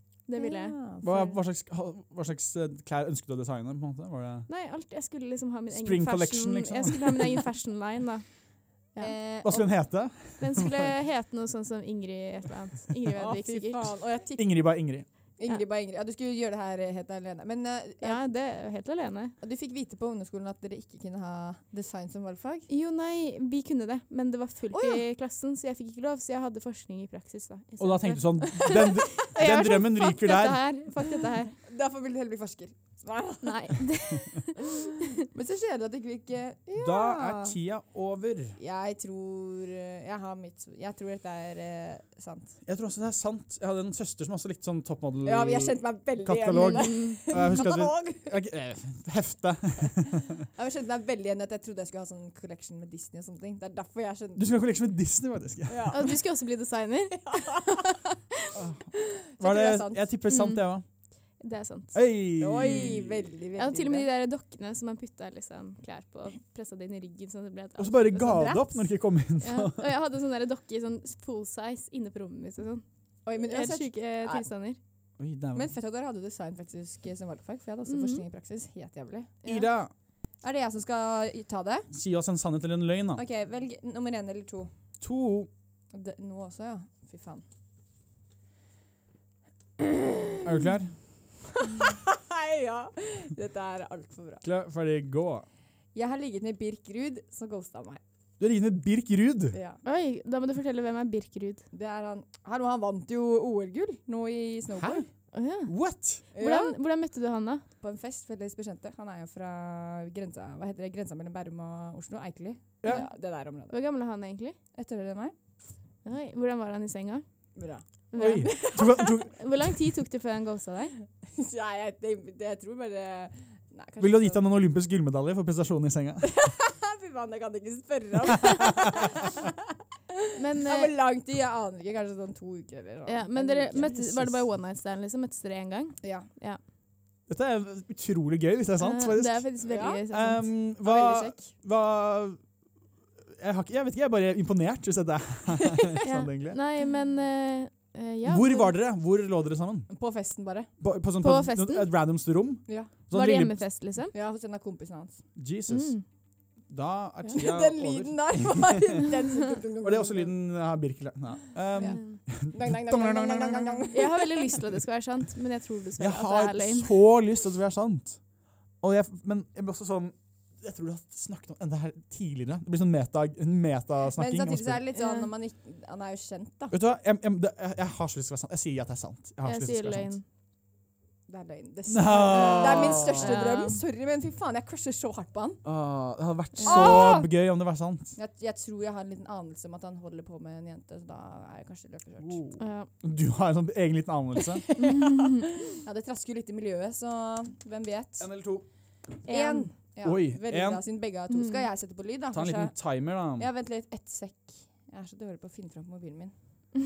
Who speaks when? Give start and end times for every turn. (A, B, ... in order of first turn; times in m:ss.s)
0:00.3-0:00.8 A
0:00.3-0:01.4 B
0:01.0-0:04.5 C
0:04.5-0:08.2 A
0:05.7-0:07.4 C
0:09.0-0:09.7 B
0:09.4-0:10.9 C
0:10.4-0:13.8 A
0:13.1-0:14.5 B
0:14.4-0:15.0 C
0:15.4-0:18.2 B
0:18.0-0:19.3 A
0:19.4-0:22.7 B
0:22.7-0:31.6 A
0:24.7-0:25.0 B
0:27.8-0:30.6 C
0:31.6-0:37.6 B
0:33.4-0:35.2 A
0:36.8-0:38.6 C
0:38.6-0:42.6 B
0:42.6-0:50.4 C
0:45.2-0:48.3 B
0:46.5-0:47.2 A
0:50.5-0:54.4 B
0:54.4-0:56.0 C
0:55.7-0:56.2 B
0:55.9-0:58.6 A
0:57.2-0:58.0 B
0:58.5-1:00.8 C
0:59.0-1:00.1 B
1:00.3-1:00.6 A
1:01.4-1:02.0 A
1:01.9-1:03.2 C
1:02.4-1:04.1 B
1:03.6-1:08.5 A
1:07.8-1:09.8 C
1:08.2-1:08.8 B
1:09.4-1:12.8 A
1:13.2-1:14.4 B
1:13.4-1:14.8 A
1:15.2-1:15.7 C
1:15.5-1:19.4 B
1:17.9-1:18.2 A
1:19.4-1:19.7 A
1:19.4-1:19.9 C
1:20.4-1:21.9 B
1:21.9-1:23.2 C
1:23.1-1:24.7 B
1:25.0-1:25.5 C
1:25.9-1:27.4 B
1:29.8-1:30.6 B
1:30.4-1:30.9 C
1:31.6-1:34.4 B
1:34.4-1:35.4 C
1:35.9-1:38.0 B
1:38.4-1:39.5 C
1:39.5-1:39.8 B
1:39.8-1:41.6 A
1:41.7-1:45.0 B
1:44.8-1:45.0 C
1:45.3-1:47.6 A
1:45.6-1:46.2 C
1:46.3-1:46.8 B
1:47.8-1:53.7 B
1:53.7-1:54.6 A
1:54.7-1:55.3 B
1:56.0-1:57.2 A
1:57.6-1:57.8 B
1:58.1-2:01.0 A
1:58.2-1:59.7 C
1:58.4-1:59.1 B
2:01.2-2:04.6 B
2:04.0-2:06.2 C
2:06.2-2:09.6 B
2:10.1-2:14.2 B
2:10.3-2:10.9 A
2:13.1-2:16.6 A
2:14.0-2:14.3 C
2:16.0-2:16.3 B
2:17.3-2:19.5 C
2:18.8-2:20.5 A
2:19.6-2:20.0 B
2:20.1-2:22.4 C
2:20.8-2:21.5 B
2:23.3-2:26.6 C
2:26.0-2:28.7 A
2:28.2-2:29.9 C
2:29.9-2:30.7 B
2:30.8-2:33.6 C
2:31.2-2:31.9 A
2:33.1-2:34.1 A
2:34.1-2:35.2 B
2:35.4-2:36.0 C
2:35.7-2:36.0 A
2:36.7-2:39.0 C
2:37.3-2:40.3 B
2:39.8-2:43.9 C
2:41.8-2:44.4 B
2:41.8-2:42.2 A
2:43.9-2:46.9 A
2:46.0-2:48.2 C
2:48.8-2:54.8 C
2:54.1-2:56.8 B
2:55.0-2:55.3 A
2:56.7-3:00.1 C
2:59.4-3:00.2 A
3:01.3-3:05.6 B
3:01.9-3:03.4 C
3:02.4-3:03.8 A
3:05.6-3:08.1 C
3:06.6-3:07.1 A
3:06.6-3:07.3 B
3:08.2-3:12.4 B
3:12.2-3:14.6 C
3:12.6-3:12.9 A
3:14.6-3:18.3 B
3:14.8-3:15.4 A
3:18.2-3:18.6 C
3:19.2-3:22.8 B
3:19.2-3:19.7 A
3:20.0-3:20.8 C
3:21.3-3:21.6 A
3:22.3-3:23.5 C
3:23.3-3:26.3 B